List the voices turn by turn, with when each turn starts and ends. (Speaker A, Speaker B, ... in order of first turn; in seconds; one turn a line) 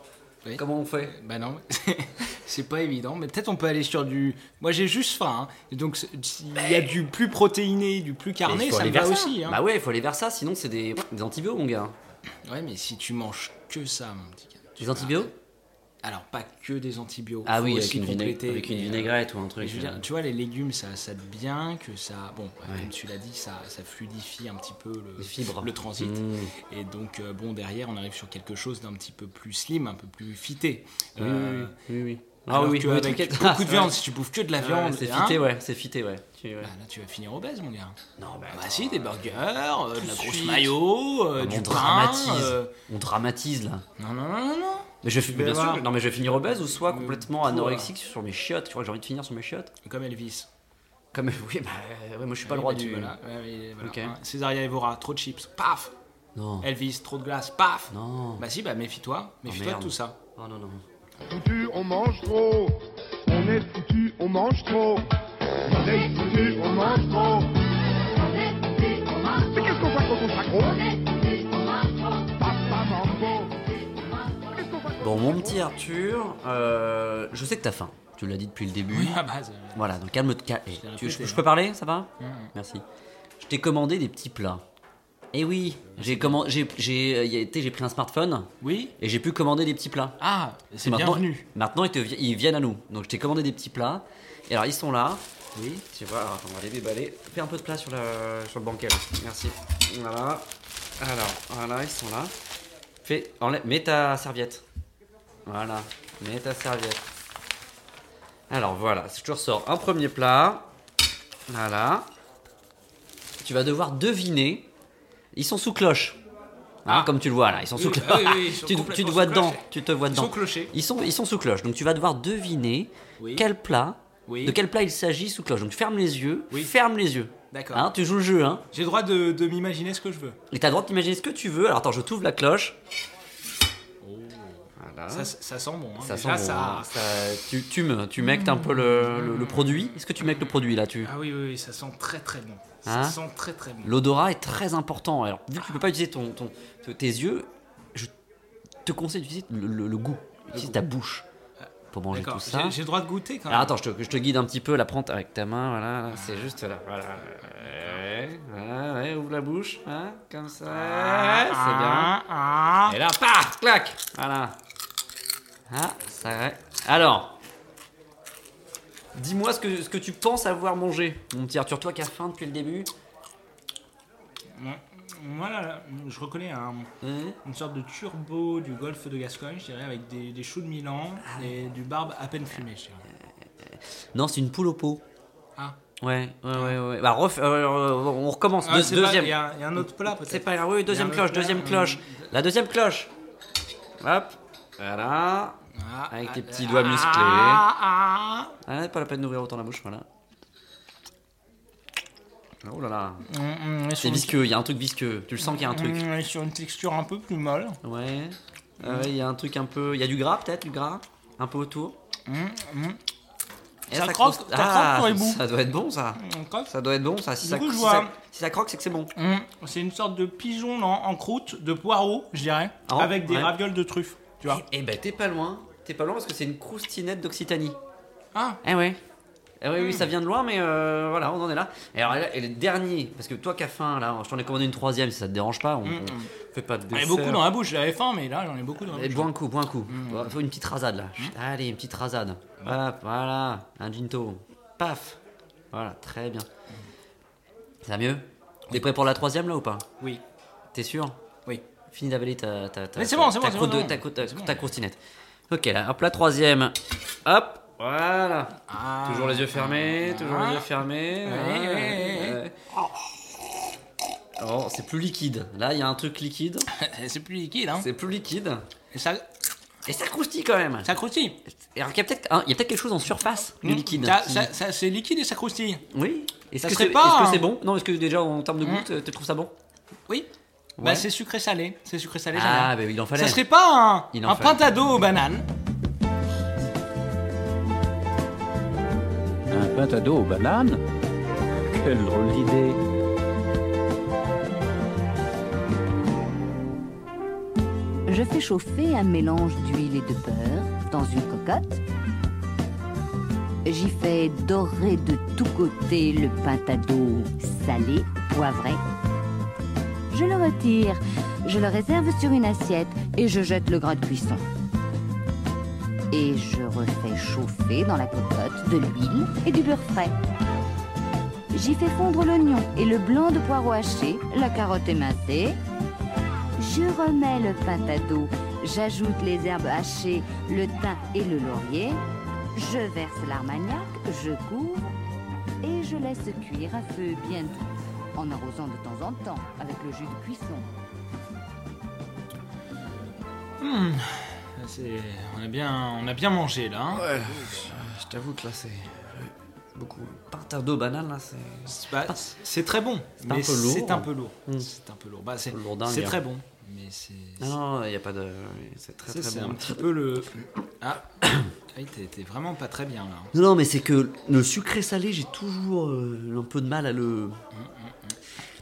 Speaker A: 0.4-9.6
Speaker B: 0.6-1.1
Speaker B: 8.4-11.9
Speaker A: 12.4-15.3
Speaker B: 14.8-15.3
Speaker A: 16.0-31.7
Speaker B: 17.4-20.0
Speaker B: 25.2-26.5
Speaker B: 31.2-34.0
Speaker A: 32.5-35.5
Speaker B: 34.6-36.7
Speaker A: 36.6-38.0
Speaker B: 38.2-39.3
Speaker A: 38.5-42.7
Speaker B: 39.9-40.7
Speaker B: 41.4-43.8
Speaker A: 44.0-47.9
Speaker B: 45.0-49.7
Speaker A: 49.8-50.5
Speaker B: 51.1-53.1
Speaker A: 52.4-55.9
Speaker B: 53.8-54.1
Speaker B: 56.3-56.7
Speaker A: 56.6-60.2
Speaker B: 57.9-58.4
Speaker B: 59.5-60.8
Speaker C: 61.3-65.0
Speaker C: 65.7-67.5
Speaker C: 69.2-71.0
Speaker C: 72.3-73.5
Speaker C: 74.6-74.9
Speaker B: 75.0-79.2
Speaker A: 78.9-79.8
Speaker B: 79.7-82.8
Speaker A: 80.7-81.5
Speaker A: 82.2-82.5
Speaker B: 83.4-84.6
Speaker B: 85.3-90.2
Speaker A: 86.0-86.4
Speaker A: 88.6-88.9
Speaker A: 90.2-91.5
Speaker B: 90.8-95.2
Speaker A: 95.5-95.8
Speaker B: 95.9-100.5
Speaker B: 101.0-102.3
Speaker B: 103.0-104.6
Speaker B: 105.5-107.0
Speaker B: 108.5-110.7
Speaker B: 111.5-112.1
Speaker B: 113.4-114.7
Speaker B: 115.3-116.2
Speaker A: 116.8-117.1
Speaker B: 116.8-128.6
Speaker A: 117.7-120.7
Speaker A: 123.2-123.5
Speaker A: 124.3-124.6
Speaker A: 127.5-127.9
Speaker A: 128.7-130.4
Speaker B: 130.5-132.8
Speaker A: 134.0-136.9
Speaker B: 134.8-135.3
Speaker B: 136.0-141.1
Speaker A: 138.2-143.9
Speaker B: 142.8-143.2
Speaker B: 143.8-148.1
Speaker B: 148.8-151.2
Speaker A: 150.5-150.8
Speaker A: 151.6-153.8
Speaker B: 151.9-152.8
Speaker B: 153.5-162.1
Speaker A: 156.1-156.6
Speaker A: 157.6-158.0
Speaker A: 160.7-163.0
Speaker B: 162.9-164.6
Speaker B: 165.7-167.3
Speaker B: 169.1-172.9
Speaker A: 174.6-176.9
Speaker B: 177.0-177.4
Speaker A: 177.4-183.0
Speaker B: 181.2-181.5
Speaker B: 183.6-185.0
Speaker B: 186.0-193.1
Speaker A: 186.5-186.8
Speaker A: 188.6-192.3
Speaker B: 194.0-195.6
Speaker A: 195.8-198.5
Speaker B: 196.1-197.7
Speaker B: 198.7-200.1
Speaker B: 202.6-203.2
Speaker A: 203.3-204.4
Speaker B: 204.0-206.0
Speaker A: 205.4-207.8
Speaker B: 207.8-212.0
Speaker A: 208.8-209.1
Speaker A: 212.3-213.0
Speaker B: 213.9-219.1
Speaker A: 213.9-215.4
Speaker A: 216.2-216.7
Speaker A: 217.4-218.1
Speaker A: 219.2-224.6
Speaker B: 222.9-223.5
Speaker B: 224.5-227.8
Speaker A: 228.3-228.6
Speaker B: 228.6-229.0
Speaker B: 229.6-237.4
Speaker A: 229.8-230.1
Speaker A: 235.8-236.3
Speaker A: 236.9-239.3
Speaker B: 238.9-245.2
Speaker A: 239.9-240.4
Speaker B: 245.7-246.5
Speaker B: 247.8-249.8
Speaker B: 250.7-251.2
Speaker B: 251.9-255.0
Speaker A: 252.9-254.7
Speaker B: 255.5-262.5
Speaker A: 258.7-262.4
Speaker B: 264.4-266.6
Speaker A: 266.8-267.9
Speaker B: 267.8-268.6
Speaker A: 268.9-269.2
Speaker B: 269.9-270.9
Speaker A: 270.8-271.4
Speaker B: 271.5-274.5
Speaker A: 273.6-275.8
Speaker B: 275.9-279.5
Speaker A: 276.6-277.5
Speaker A: 278.6-278.9
Speaker A: 280.1-285.4
Speaker B: 280.8-281.1
Speaker B: 282.3-283.4
Speaker B: 284.1-284.6
Speaker D: 289.5-290.8
Speaker D: 291.6-292.8
Speaker E: 298.1-301.8
Speaker E: 303.6-308.8
Speaker E: 310.1-314.4
Speaker E: 316.1-320.1
Speaker E: 321.5-325.6
Speaker E: 326.6-332.0
Speaker E: 332.5-334.9
Speaker E: 335.6-340.6
Speaker A: 343.6-347.7
Speaker B: 346.9-352.2
Speaker A: 351.7-357.6
Speaker B: 353.2-354.7
Speaker B: 355.5-356.2
Speaker B: 357.4-359.9
Speaker A: 359.1-361.1
Speaker B: 361.2-361.5
Speaker A: 361.7-363.3
Speaker B: 363.3-367.4
Speaker A: 367.5-368.2